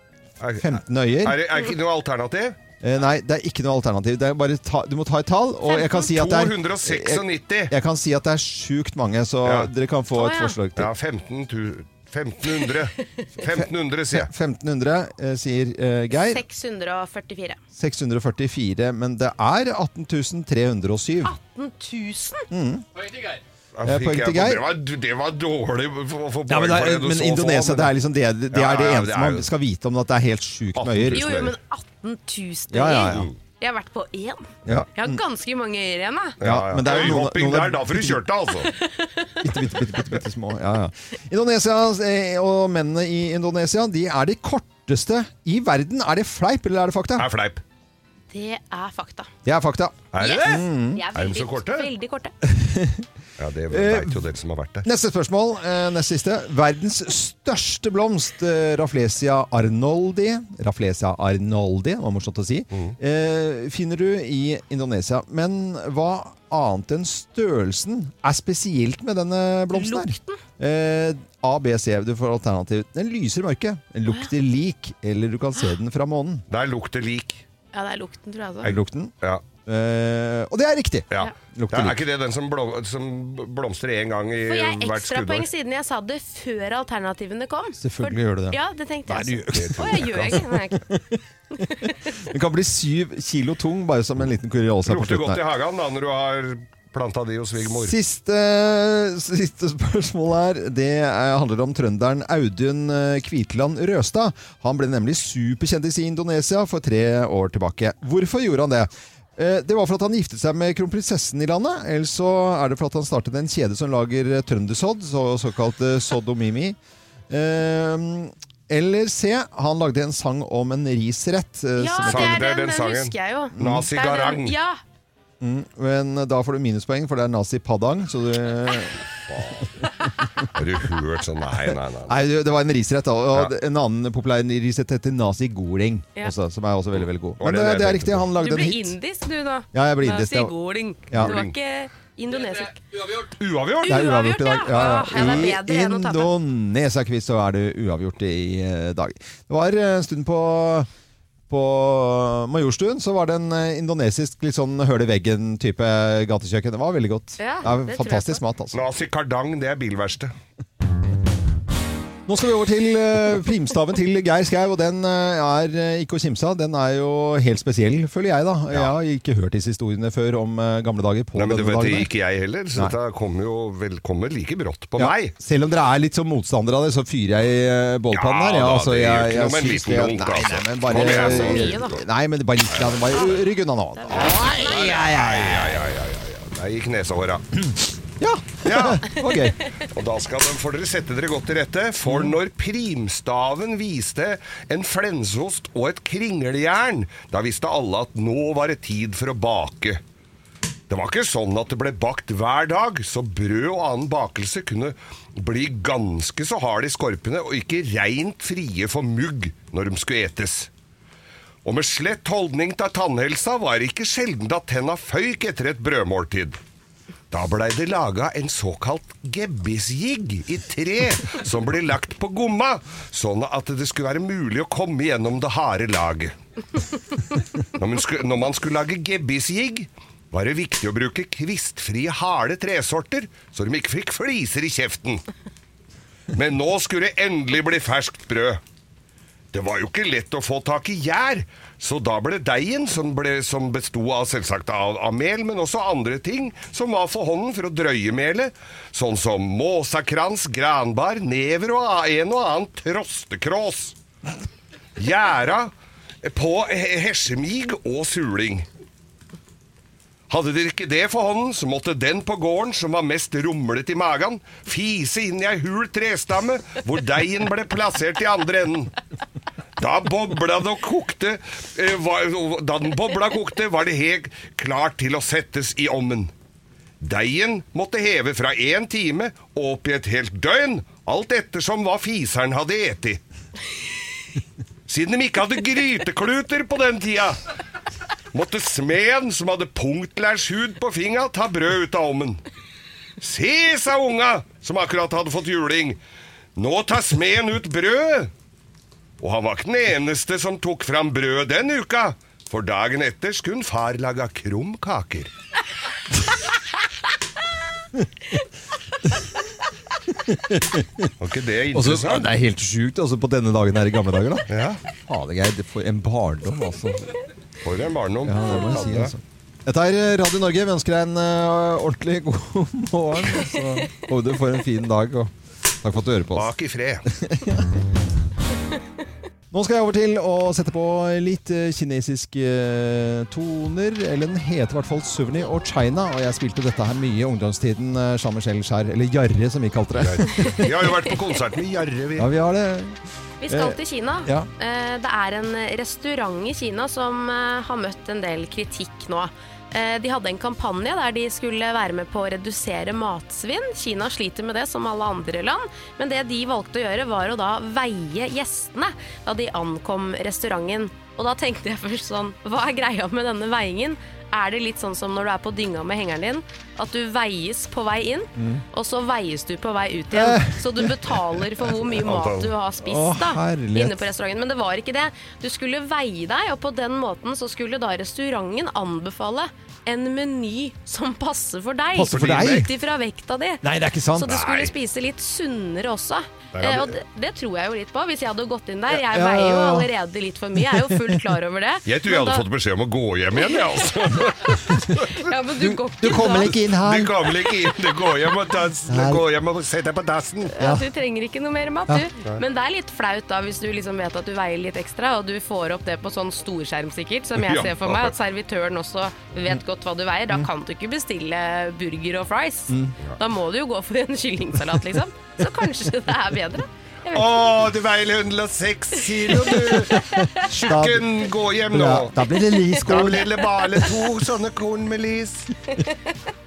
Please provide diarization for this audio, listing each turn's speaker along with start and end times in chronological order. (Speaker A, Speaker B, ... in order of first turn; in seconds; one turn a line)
Speaker A: 0.4-2.6
Speaker B: 0.6-1.4
Speaker B: 2.8-10.9
Speaker C: 5.7-6.1
Speaker A: 5.9-7.7
Speaker A: 9.4-9.7
Speaker C: 10.2-10.6
Speaker A: 10.8-14.3
Speaker B: 13.5-16.4
Speaker C: 16.1-17.6
Speaker B: 17.8-21.4
Speaker C: 21.2-22.5
Speaker B: 22.5-22.9
Speaker A: 23.8-28.0
Speaker B: 23.9-24.7
Speaker B: 26.5-31.3
Speaker A: 28.5-29.5
Speaker A: 30.8-31.6
Speaker C: 31.1-36.4
Speaker B: 32.7-33.3
Speaker A: 33.1-33.4
Speaker B: 34.7-35.2
Speaker A: 36.4-38.7
Speaker B: 36.4-38.2
Speaker C: 38.7-39.3
Speaker B: 39.4-47.3
Speaker A: 47.2-47.6
Speaker C: 48.3-49.3
Speaker B: 49.5-51.0
Speaker A: 50.1-51.9
Speaker C: 50.2-52.4
Speaker B: 52.5-53.1
Speaker A: 53.4-54.9
Speaker B: 53.7-54.2
Speaker B: 54.8-76.5
Speaker A: 62.7-63.0
Speaker C: 69.7-70.4
Speaker A: 76.5-77.4
Speaker C: 77.7-78.7
Speaker B: 78.6-79.1
Speaker A: 78.7-79.4
Speaker B: 79.7-82.0
Speaker A: 81.1-85.5
Speaker C: 84.5-90.9
Speaker B: 87.8-95.4
Speaker A: 89.5-90.4
Speaker C: 91.5-92.0
Speaker A: 94.8-98.0
Speaker B: 97.7-116.8
Speaker B: 117.3-122.4
Speaker C: 121.8-124.8
Speaker A: 122.0-124.6
Speaker B: 123.5-123.9
Speaker B: 125.4-129.0
Speaker A: 129.3-129.7
Speaker B: 130.2-130.5
Speaker A: 130.5-132.2
Speaker B: 132.1-138.9
Speaker A: 137.0-138.3
Speaker C: 138.4-142.8
Speaker B: 139.7-140.5
Speaker B: 141.1-141.3
Speaker A: 141.2-141.6
Speaker A: 143.3-144.1
Speaker C: 143.8-146.3
Speaker B: 143.9-150.9
Speaker B: 151.5-158.8
Speaker C: 157.4-158.4
Speaker A: 158.7-160.3
Speaker B: 162.3-172.1
Speaker A: 171.3-175.3
Speaker B: 175.0-185.8
Speaker A: 178.1-182.0
Speaker C: 180.9-182.0
Speaker C: 183.1-185.1
Speaker A: 184.1-187.7
Speaker B: 188.2-189.6
Speaker A: 188.6-189.2
Speaker A: 189.9-200.0
Speaker B: 192.1-192.3
Speaker A: 200.9-210.7
Speaker A: 211.6-216.6
Speaker A: 217.3-226.3
Speaker A: 227.7-235.2
Speaker A: 236.3-238.6
Speaker A: 239.5-254.0
Speaker A: 255.0-258.7
Speaker A: 260.3-268.9
Speaker A: 269.8-276.3
Speaker A: 277.0-283.2
Speaker A: 284.9-287.4
Speaker A: 288.3-292.4
Speaker A: 293.2-296.0
Speaker A: 296.6-298.3
Speaker A: 299.2-305.3
Speaker B: 310.2-311.1
Speaker A: 311.2-312.3
Speaker B: 311.7-314.5
Speaker A: 314.5-314.8
Speaker B: 315.1-317.1
Speaker A: 317.6-319.1
Speaker B: 318.2-325.3
Speaker B: 325.8-326.6
Speaker A: 326.4-327.1
Speaker B: 327.1-327.7
Speaker B: 329.5-340.7
Speaker A: 340.0-342.3
Speaker B: 342.2-343.0
Speaker C: 343.4-383.6
Speaker B: 343.5-344.5
Speaker B: 368.4-368.6
Speaker B: 370.1-371.2
Speaker A: 371.9-372.5
Speaker B: 372.8-374.1
Speaker B: 381.9-382.7
Speaker A: 382.1-382.6
Speaker B: 383.6-384.4
Speaker C: 384.1-392.5
Speaker A: 384.3-384.7
Speaker A: 386.5-387.0
Speaker B: 388.9-389.9
Speaker B: 390.6-391.2
Speaker A: 391.9-395.3
Speaker C: 393.4-393.8
Speaker C: 395.1-396.6
Speaker B: 395.6-397.4
Speaker A: 396.2-400.6
Speaker B: 398.9-399.2
Speaker C: 400.6-417.4
Speaker B: 400.6-400.9
Speaker A: 407.4-408.1
Speaker B: 412.7-412.9
Speaker A: 417.1-422.1
Speaker B: 419.9-421.1
Speaker B: 421.7-423.3
Speaker A: 422.8-425.5